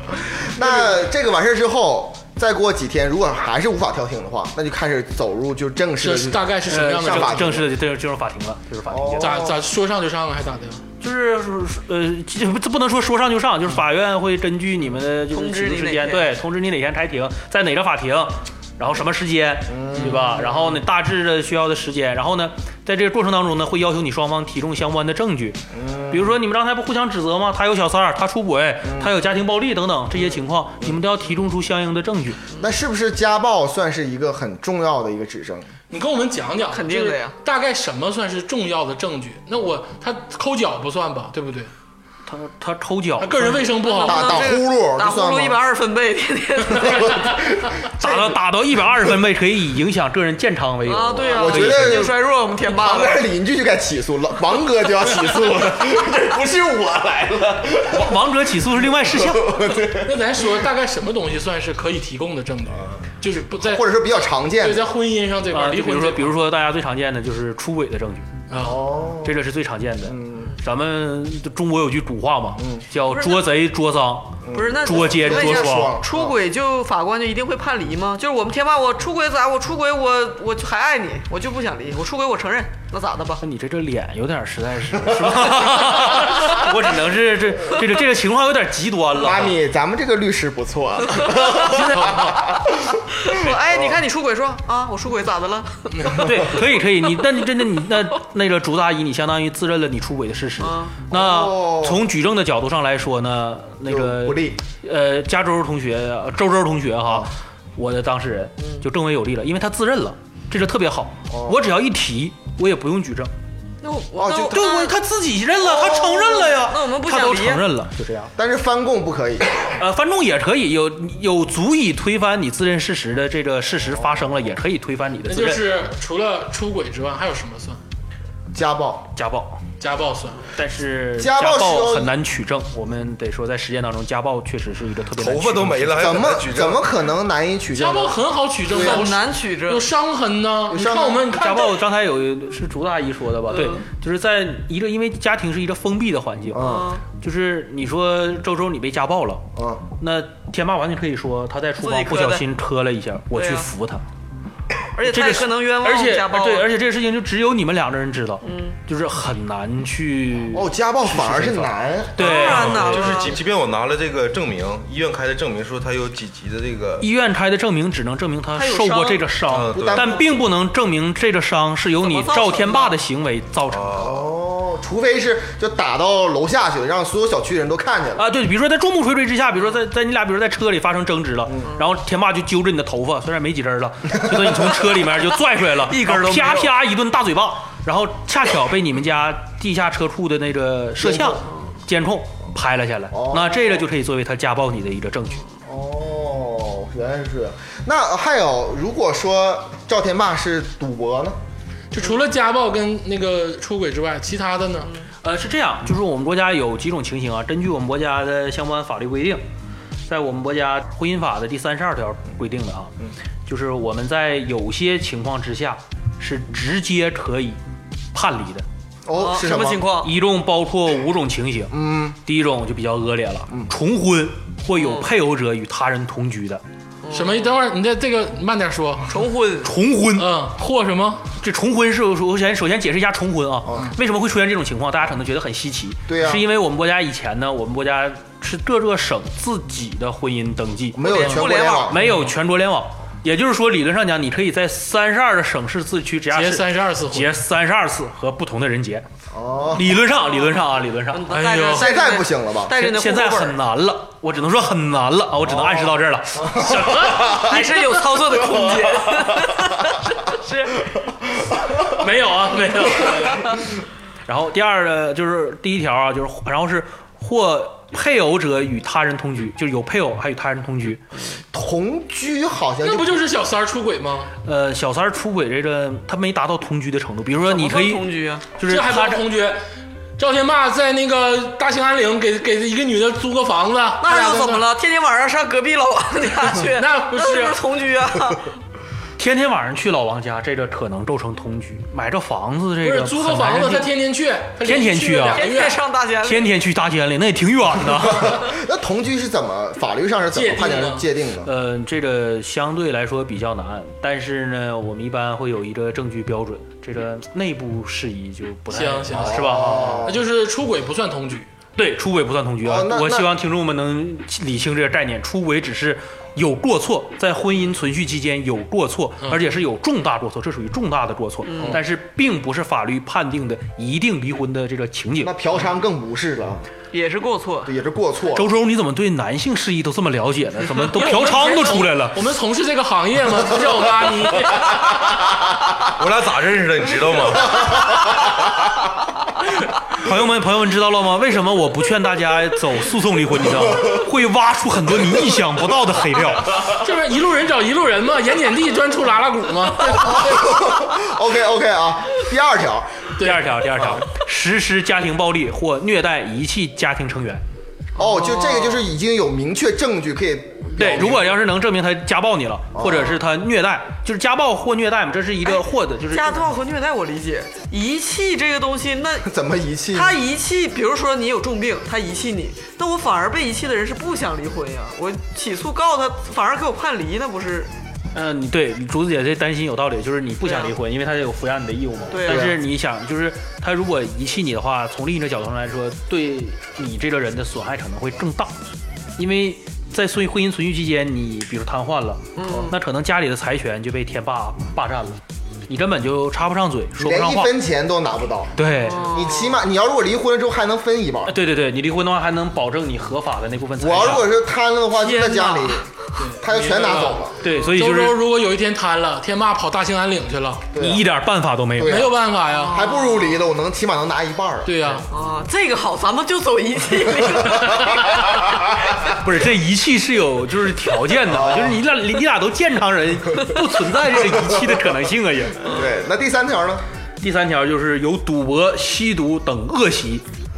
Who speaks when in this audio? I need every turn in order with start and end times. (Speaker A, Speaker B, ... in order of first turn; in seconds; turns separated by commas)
Speaker A: 0.4-6.5, Speaker B: 6.0-7.6, Speaker C: 6.7-9.4, Speaker A: 7.0-7.7, Speaker A: 8.9-9.6, Speaker B: 9.2-10.8, Speaker C: 11.0-32.4, Speaker D: 15.3-16.3, Speaker A: 19.7-20.6, Speaker A: 25.7-26.4, Speaker A: 28.8-29.1, Speaker A: 32.6-35.7, Speaker B: 35.9-41.7, Speaker D: 36.7-37.3, Speaker C: 42.3-43.6, Speaker B: 43.2-44.5, Speaker D: 43.8-47.3, Speaker A: 44.0-45.6, Speaker A: 46.7-48.2, Speaker C: 48.0-52.1, Speaker D: 50.8-53.2, Speaker A: 51.2-58.2, Speaker C: 57.9-59.6, Speaker A: 58.7-60.5, Speaker B: 60.0-64.0, Speaker A: 63.6-64.9, Speaker B: 64.6-66.3, Speaker C: 65.5-68.3, Speaker B: 68.5-68.9, Speaker A: 68.6-69.4, Speaker C: 69.2-76.0, Speaker A: 70.1-70.5, Speaker A: 72.6-72.8, Speaker D: 73.1-73.5, Speaker A: 74.4-76.4, Speaker D: 74.5-83.4, Speaker C: 83.4-89.6, Speaker A: 89.2-94.0, Speaker B: 91.7-92.4, Speaker D: 93.2-96.4, Speaker B: 95.9-96.2, Speaker C: 96.2-113.3, Speaker D: 100.6-101.0, Speaker A: 101.1-102.1, Speaker A: 103.8-104.6, Speaker A: 107.1-107.3, Speaker D: 108.6-108.8, Speaker A: 111.3-111.6, Speaker D: 113.8-115.0, Speaker A: 114.2-114.8, Speaker C: 114.5-118.3, Speaker A: 115.7-116.4, Speaker D: 115.8-117.7, Speaker A: 118.4-119.8, Speaker C: 119.7-125.7, Speaker B: 125.3-127.8, Speaker A: 128.5-129.1, Speaker C: 129.2-129.6, Speaker B: 129.8-130.4, Speaker C: 130.5-136.1, Speaker A: 131.2-132.2, Speaker E: 135.2-136.8, Speaker A: 136.0-139.1, Speaker B: 137.8-141.8, Speaker D: 138.7-139.9, Speaker A: 140.7-141.3, Speaker C: 141.3-149.5, Speaker D: 143.5-143.8, Speaker A: 146.5-146.9, Speaker D: 146.6-147.0, Speaker A: 149.6-149.8, Speaker C: 150.0-154.0, Speaker D: 151.8-152.4, Speaker D: 153.3-153.7, Speaker D: 154.9-156.7, Speaker C: 155.1-163.3, Speaker D: 158.4-158.8, Speaker A: 160.5-162.4, Speaker D: 162.2-163.4, Speaker E: 162.3-167.1, Speaker C: 167.0-174.0, Speaker D: 168.6-169.3, Speaker E: 169.5-170.2, Speaker A: 169.7-170.2, Speaker D: 172.0-173.0, Speaker E: 173.7-174.3, Speaker A: 174.0-178.2, Speaker C: 178.2-195.4, Speaker D: 185.8-186.7, Speaker A: 191.0-191.5, Speaker A: 193.1-193.9, Speaker A: 195.7-201.4, Speaker B: 201.9-204.9, Speaker C: 205.2-209.4, Speaker C: 210.1-217.6, Speaker C: 218.1-218.7, Speaker A: 219.1-220.0, Speaker D: 219.1-220.1, Speaker C: 220.0-226.6, Speaker A: 221.7-222.2, Speaker D: 224.8-225.1, Speaker D: 227.0-227.5, Speaker B: 227.1-229.2, Speaker D: 229.1-229.7, Speaker C: 229.6-230.3, Speaker B: 230.2-231.3, Speaker C: 231.4-241.0, Speaker A: 236.1-236.4, Speaker A: 240.9-242.1, Speaker D: 241.0-241.9, Speaker B: 241.1-241.5, Speaker C: 241.9-249.1, Speaker B: 242.0-242.3, Speaker B: 246.3-247.3, Speaker A: 249.3-250.0, Speaker C: 249.7-251.3, Speaker D: 251.1-253.6, Speaker B: 251.3-252.0, Speaker A: 251.7-252.8, Speaker C: 252.7-257.4, Speaker A: 255.4-257.4, Speaker D: 257.3-260.9, Speaker B: 261.9-263.6, Speaker C: 264.3-271.0, Speaker A: 271.5-273.2, Speaker B: 272.8-274.3, Speaker C: 274.4-279.2, Speaker D: 277.4-278.4, Speaker B: 278.7-279.6, Speaker B: 280.2-284.5, Speaker D: 284.0-288.5, Speaker A: 284.1-284.6, Speaker B: 286.6-287.6, Speaker C: 289.2-293.9, Speaker B: 292.8-295.8, Speaker C: 294.6-295.5, Speaker D: 295.4-296.6, Speaker C: 296.2-298.4, Speaker A: 297.9-301.5, Speaker B: 300.3-301.1, Speaker C: 301.4-310.1, Speaker B: 308.7-311.5, Speaker A: 309.1-310.2, Speaker C: 311.8-325.4, Speaker A: 312.6-313.3, Speaker D: 321.4-321.8, Speaker A: 321.6-321.8, Speaker A: 325.2-326.6, Speaker D: 326.9-327.7, Speaker A: 327.7-328.5, Speaker C: 328.4-332.2, Speaker B: 330.9-335.2, Speaker E: 335.9-337.9, Speaker C: 339.9-346.7, Speaker B: 346.7-350.5, Speaker A: 349.9-353.1, Speaker B: 353.2-353.5, Speaker C: 353.2-357.4, Speaker D: 358.0-358.9, Speaker A: 358.0-361.4, Speaker C: 360.8-366.5, Speaker B: 360.9-361.2, Speaker A: 362.7-363.2, Speaker D: 365.4-369.3, Speaker A: 369.2-370.2, Speaker D: 369.9-377.7, Speaker C: 378.1-388.6, Speaker D: 380.4-380.7, Speaker D: 382.1-382.6, Speaker A: 382.2-382.6, Speaker C: 389.2-397.5, Speaker D: 392.4-392.8, Speaker A: 392.4-392.7, Speaker A: 397.0-401.4, Speaker C: 398.6-399.0, Speaker D: 398.8-399.6, Speaker C: 401.3-404.3, Speaker A: 403.8-407.4, Speaker C: 405.2-405.7, Speaker B: 406.1-410.7, Speaker C: 407.4-408.2, Speaker A: 410.7-411.1, Speaker C: 410.8-412.1, Speaker A: 411.8-412.2, Speaker B: 411.9-412.9, Speaker D: 412.5-413.4, Speaker A: 412.7-415.0, Speaker B: 414.6-415.1, Speaker D: 415.1-418.4, Speaker C: 419.1-425.7, Speaker A: 421.3-421.8, Speaker A: 424.3-424.6, Speaker A: 425.6-426.9, Speaker C: 427.2-430.2